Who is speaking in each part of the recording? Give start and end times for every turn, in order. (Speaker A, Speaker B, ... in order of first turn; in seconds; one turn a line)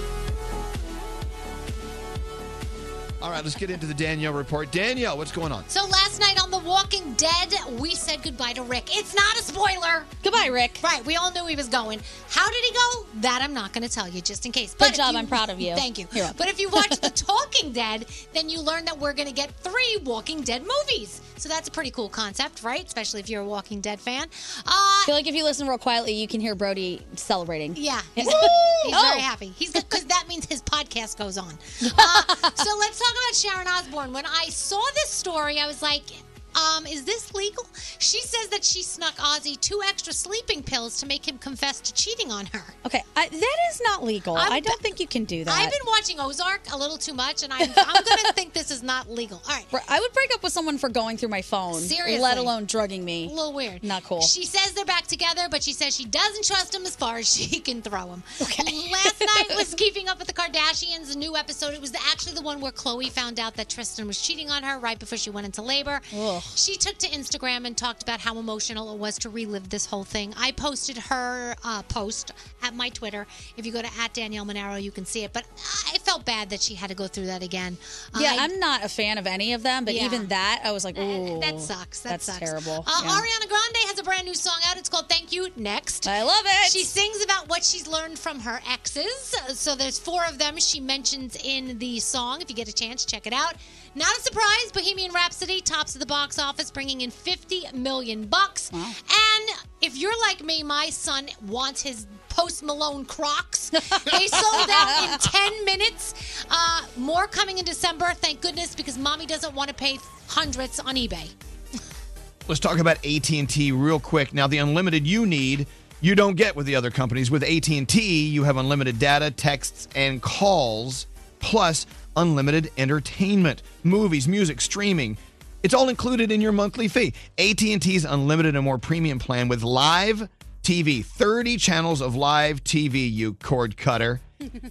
Speaker A: 3.2-5.7
Speaker B: 5.7-10.2
Speaker C: 10.2-10.8
Speaker B: 10.8-25.1
Speaker C: 14.8-17.1
Speaker C: 25.1-29.9
Speaker B: 27.7-42.8
Speaker C: 31.8-32.4
Speaker C: 42.8-45.8
Speaker B: 44.3-44.8
Speaker B: 45.5-49.7
Speaker C: 47.6-48.1
Speaker C: 49.7-54.3
Speaker B: 51.7-52.5
Speaker B: 53.2-78.5
Speaker C: 58.4-59.7
Speaker C: 66.1-66.5
Speaker C: 78.1-83.2
Speaker B: 79.8-80.3
Speaker B: 80.9-111.3
Speaker C: 86.0-86.9
Speaker C: 104.2-105.2
Speaker A: 112.5-134.2